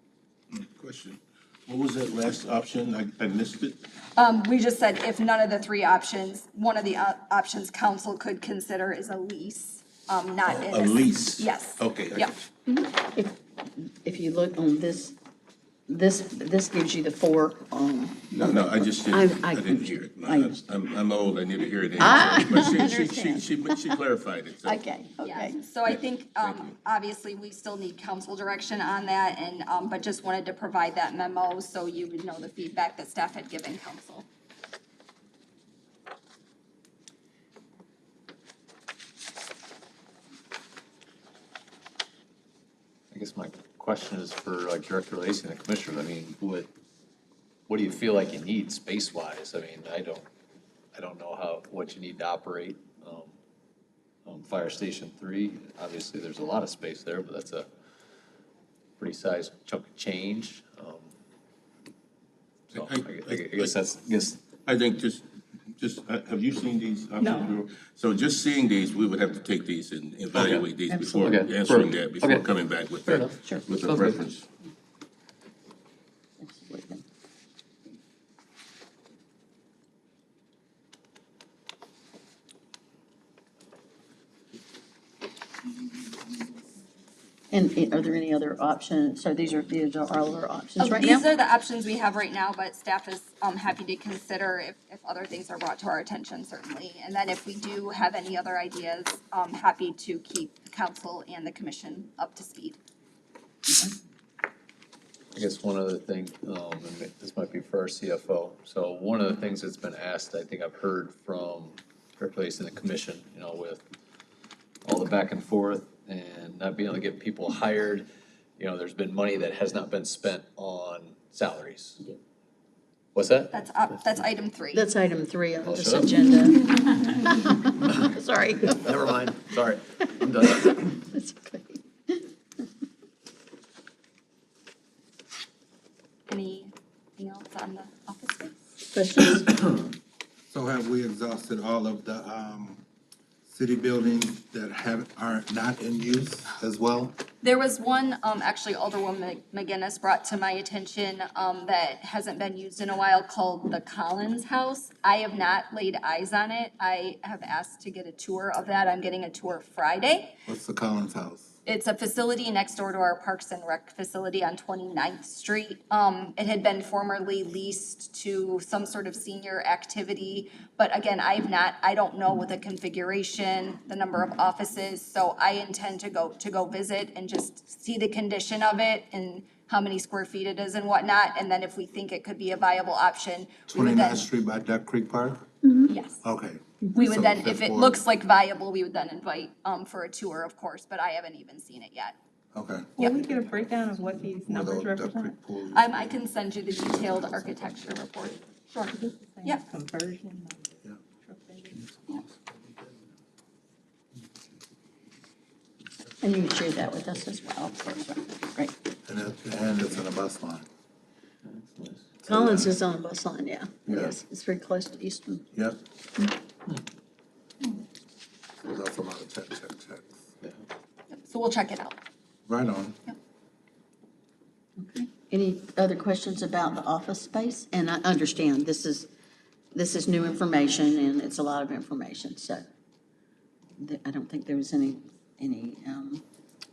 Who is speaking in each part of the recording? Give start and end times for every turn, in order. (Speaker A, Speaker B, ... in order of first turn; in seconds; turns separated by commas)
Speaker A: 0.5-3.8, Speaker B: 4.2-12.3, Speaker A: 10.4-12.3, Speaker C: 12.7-15.2, Speaker C: 15.9-20.6, Speaker A: 18.3-24.8, Speaker C: 22.0-23.9, Speaker C: 24.6-25.6, Speaker B: 25.2-34.3, Speaker A: 26.4-26.8, Speaker D: 43.1-46.7, Speaker D: 47.7-50.3, Speaker D: 50.9-53.3, Speaker D: 54.2-57.7, Speaker D: 59.0-61.1, Speaker A: 62.7-63.8, Speaker D: 62.7-64.5, Speaker A: 64.7-65.2, Speaker A: 65.8-74.5, Speaker E: 67.2-67.5, Speaker D: 70.3-72.5, Speaker C: 70.9-71.4, Speaker D: 73.0-74.2, Speaker C: 76.4-77.0, Speaker C: 87.5-91.2, Speaker B: 90.8-102.8, Speaker D: 105.3-113.8, Speaker D: 114.8-122.1, Speaker D: 123.2-123.5, Speaker B: 123.5-124.8, Speaker C: 124.7-129.1, Speaker D: 125.6-126.2, Speaker D: 128.8-130.7, Speaker C: 130.6-132.2, Speaker B: 136.3-138.5, Speaker C: 138.9-139.6, Speaker F: 140.5-142.8, Speaker F: 143.4-147.2, Speaker B: 147.4-160.4, Speaker F: 160.5-161.5, Speaker B: 161.7-184.3, Speaker F: 183.7-185.5, Speaker C: 185.6-185.9, Speaker B: 185.9-186.2, Speaker F: 186.2-188.0, Speaker B: 186.9-192.2, Speaker F: 192.5-192.9, Speaker E: 193.0-195.3, Speaker F: 194.5-196.2, Speaker B: 195.7-199.7, Speaker E: 198.8-202.0, Speaker C: 206.2-208.7, Speaker F: 209.1-210.7, Speaker D: 211.5-212.1, Speaker F: 212.2-212.8, Speaker C: 212.3-215.5, Speaker F: 215.5-215.8, Speaker F: 218.6-220.2, Speaker B: 221.1-222.0, Speaker F: 222.5-223.0, Speaker C: 224.8-229.1, Speaker C: 229.7-232.6, Speaker C: 233.8-236.2